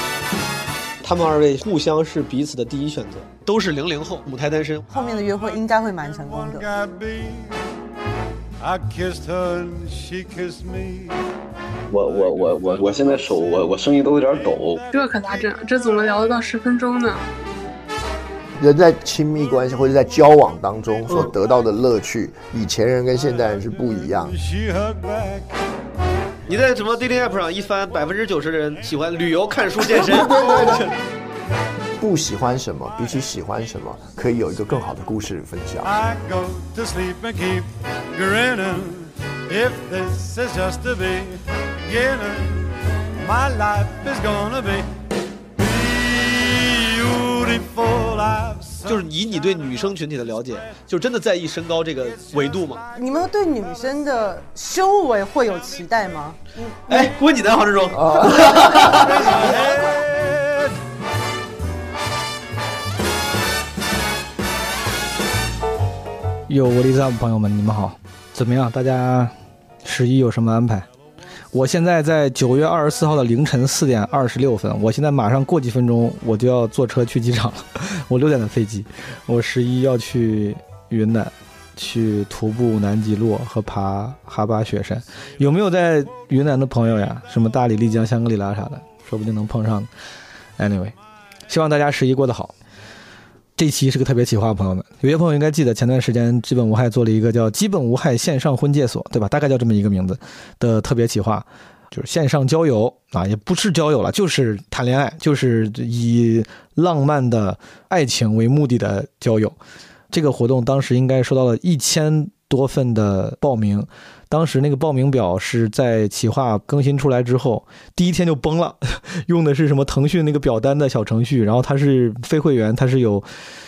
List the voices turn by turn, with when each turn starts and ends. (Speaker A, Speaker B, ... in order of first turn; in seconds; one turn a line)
Speaker A: 1.0-4.8
Speaker B: 4.9-6.7
Speaker C: 6.3-7.5
Speaker C: 8.6-11.1
Speaker D: 11.9-14.8
Speaker E: 14.9-17.2
Speaker F: 18.6-24.3
Speaker C: 24.3-25.5
Speaker A: 26.5-30.9
Speaker F: 29.8-30.8
Speaker F: 32.0-35.9
Speaker C: 35.8-44.9
Speaker C: 45.6-49.0
Speaker A: 48.8-52.9
Speaker B: 52.9-57.1
Speaker A: 56.9-59.5
Speaker F: 57.9-59.1
Speaker G: 66.5-70.9
Speaker G: 71.5-89.9
Speaker G: 90.6-90.9
Speaker G: 91.5-92.5
Speaker G: 93.6-109.6
Speaker G: 110.1-123.2